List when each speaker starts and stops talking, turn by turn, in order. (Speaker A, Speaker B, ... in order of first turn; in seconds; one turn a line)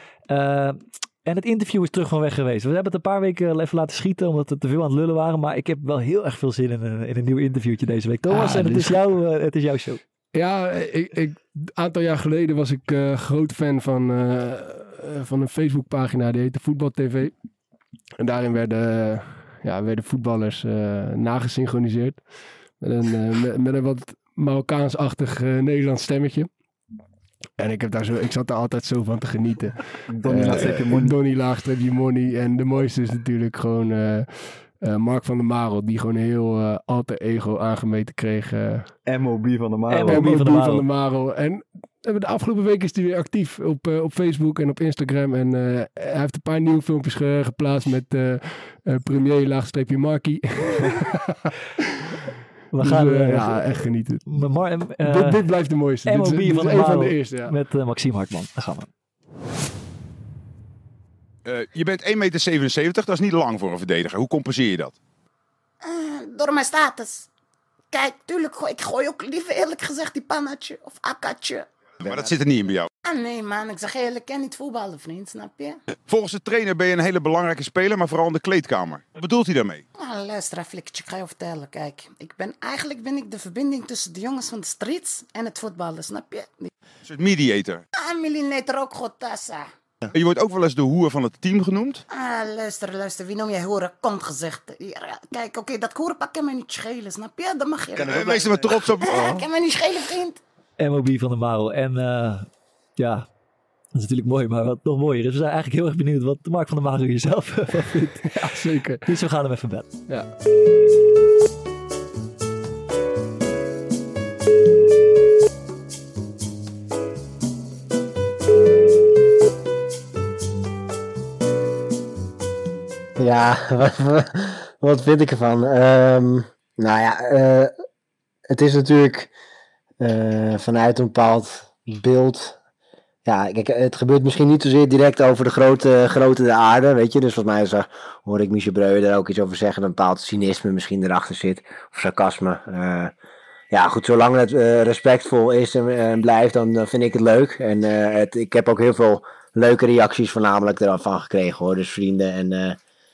Speaker A: 0.3-10.0
Speaker B: 8.3-9.0
Speaker B: 10.3-17.3
Speaker B: 18.2-26.5
Speaker B: 27.6-38.9
Speaker C: 30.1-31.1
Speaker C: 39.1-40.3
Speaker A: 39.9-40.9
Speaker B: 40.0-51.5
Speaker A: 52.7-55.4
Speaker B: 52.8-54.4
Speaker B: 55.0-57.5
Speaker A: 56.0-58.9
Speaker D: 61.5-65.0
Speaker E: 65.8-67.3
Speaker E: 67.9-72.3
Speaker D: 72.0-72.9
Speaker E: 73.0-75.8
Speaker D: 76.1-79.8
Speaker E: 80.0-86.7
Speaker D: 87.0-87.8
Speaker E: 88.0-89.7
Speaker D: 90.1-92.0
Speaker E: 92.1-100.4
Speaker D: 98.0-99.4
Speaker A: 100.8-103.3
Speaker A: 103.9-109.9
Speaker B: 108.0-109.1
Speaker F: 123.2-127.7
Speaker F: 128.5-129.3
Speaker F: 130.0-132.6
Speaker F: 133.3-143.1
Speaker F: 143.7-152.8